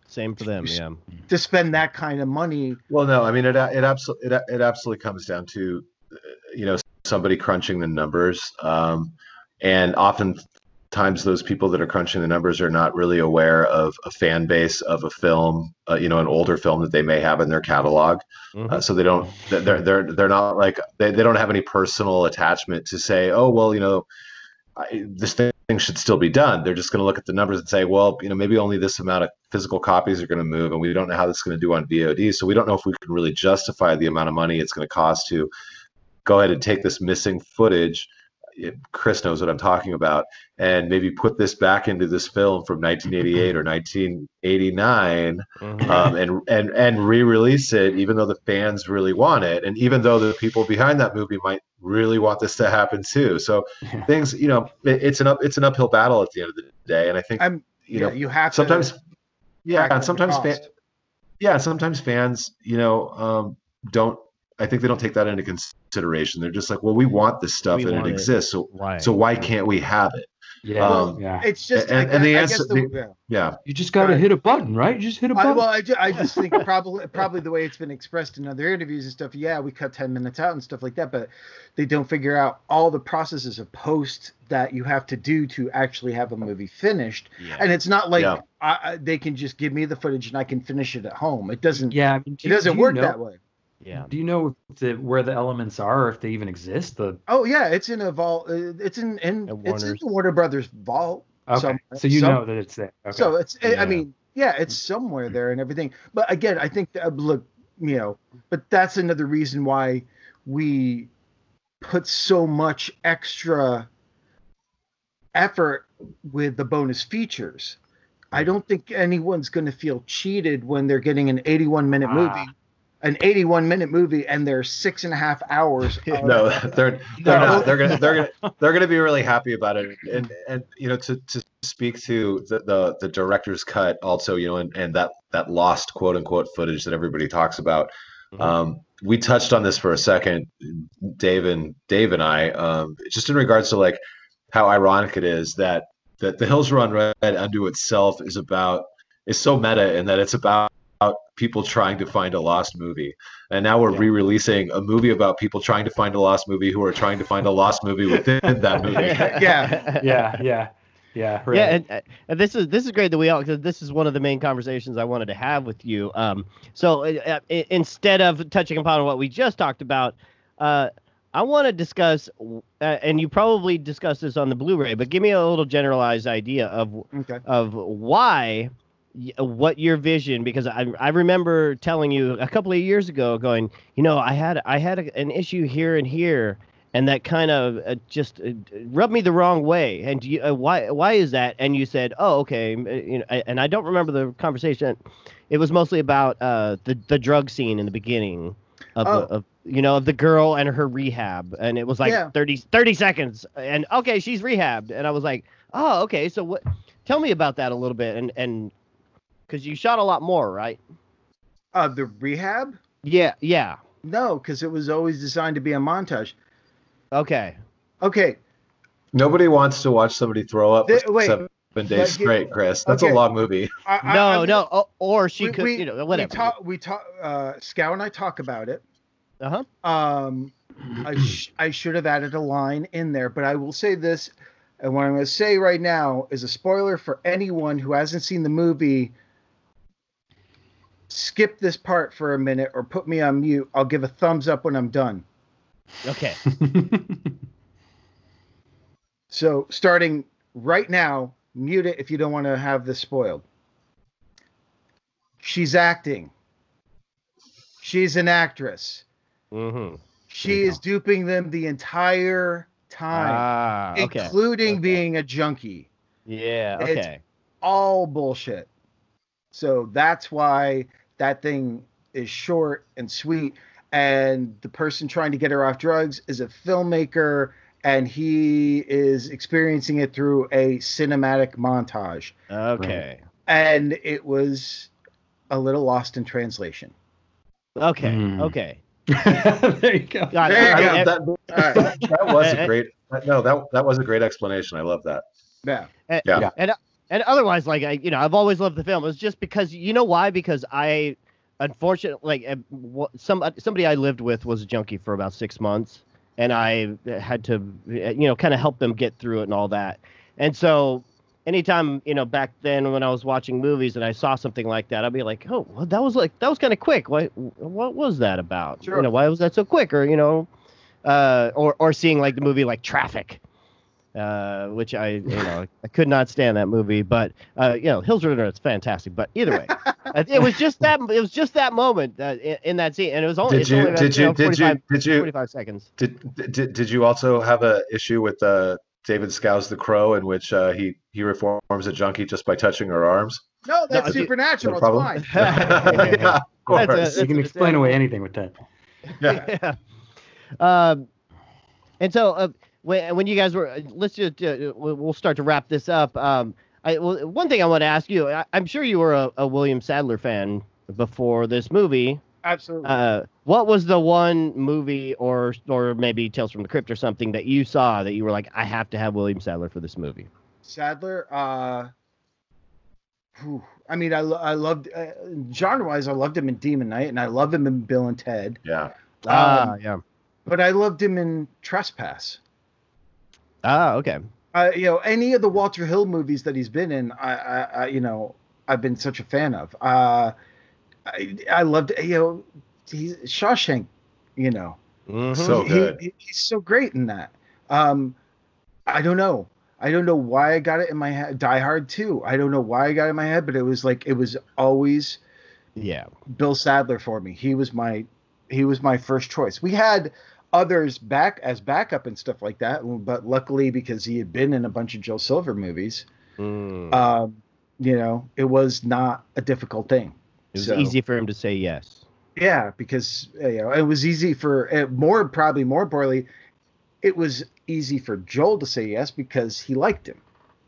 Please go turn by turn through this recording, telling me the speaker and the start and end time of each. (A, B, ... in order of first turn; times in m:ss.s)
0:00.1-0:01.0 A
0:00.4-0:02.8 B
0:02.9-0:24.1 C
0:18.6-0:18.8 A
0:24.8-0:35.5 C
0:36.2-0:59.0 C
0:45.6-0:46.1 A
0:57.4-0:58.9 B
0:59.6-1:00.7 C
0:59.8-1:00.6 B
1:01.4-1:11.2 C
1:07.7-1:09.1 A
1:10.6-1:11.5 D
1:10.8-1:13.1 B
1:11.7-1:13.6 C
1:13.7-1:15.6 D
1:14.0-1:14.2 B
1:15.4-1:33.4 B
1:27.4-1:27.7 A
1:31.9-1:33.2 D
1:33.8-1:34.1 A
1:34.0-1:37.2 D
1:37.3-1:42.4 B
1:39.5-1:40.0 A
1:41.5-1:44.0 D
1:43.1-1:51.1 B
1:51.8-1:53.9 B
1:55.4-1:57.8 B
1:58.3-2:06.6 B
2:02.0-2:02.5 D
2:06.2-2:39.3 C
2:07.2-2:08.3 D
2:07.2-2:08.0 B
2:39.0-2:40.4 A
2:39.1-2:39.8 B
2:39.1-2:41.8 D
2:41.5-3:15.0 A
2:57.1-2:57.4 B
3:15.5-3:28.7 A
3:19.0-3:19.3 B
3:22.0-3:22.3 B
3:29.5-3:30.8 A
3:31.7-3:32.8 B
3:33.0-3:33.8 A
3:34.0-3:36.4 B
3:37.1-3:37.6 A
3:38.0-3:38.4 B
3:39.1-3:43.7 C
3:40.9-3:42.3 B
3:42.8-3:43.2 B
3:43.8-3:44.6 B
3:44.0-3:46.5 A
3:45.4-3:48.8 B
3:49.4-3:49.7 A
3:49.8-3:59.1 B
4:01.1-4:05.2 B
4:06.0-4:06.4 A
4:06.5-4:07.3 D
4:09.3-4:13.4 B
4:15.4-4:16.3 B
4:17.8-4:19.0 B
4:19.5-4:20.8 A
4:20.3-4:25.9 B
4:23.1-4:25.0 A
4:26.3-4:27.2 A
4:26.8-4:27.1 B
4:27.6-4:28.7 B
4:29.5-4:42.3 B
4:42.5-4:43.2 A
4:43.5-4:44.9 B
4:45.5-4:46.9 B
4:47.8-4:48.8 A
4:48.0-4:48.5 D
4:49.1-4:50.6 D
4:50.3-4:51.1 A
4:50.5-4:51.9 B
4:50.6-4:55.2 C
4:51.8-4:52.1 D
4:52.4-4:52.7 A
4:55.6-4:55.9 B
4:56.1-5:20.5 A
4:56.2-4:56.5 C
5:18.8-5:19.1 B
5:21.0-5:23.4 A
5:24.2-5:35.9 A
5:29.7-5:30.0 B
5:33.5-5:35.3 C
5:33.6-5:34.0 B
5:36.0-5:43.5 C
5:43.7-5:46.2 B
5:43.9-5:44.3 A
5:44.0-5:47.2 C
5:45.3-5:48.0 A
5:45.9-5:48.6 D
5:49.2-5:49.5 C
5:49.2-5:49.8 A
5:50.6-5:51.1 A
5:52.0-6:02.2 A
6:02.4-6:03.0 B
6:02.8-6:10.3 A
6:10.6-6:11.9 B
6:13.4-6:18.6 B
6:18.6-6:18.9 C
6:19.2-6:19.8 B
6:19.3-6:20.0 A
6:20.5-6:22.4 B
6:23.6-6:24.2 A
6:24.5-6:30.3 B
6:31.1-6:34.8 B
6:35.1-6:35.6 A
6:35.3-6:38.2 B
6:35.3-6:36.0 C
6:38.9-6:45.2 B
6:45.8-6:46.1 A
6:46.3-6:56.1 B
6:56.4-6:57.0 A
6:56.9-7:01.0 B
7:00.5-7:02.0 A
7:02.4-7:06.3 B
7:07.0-7:10.2 B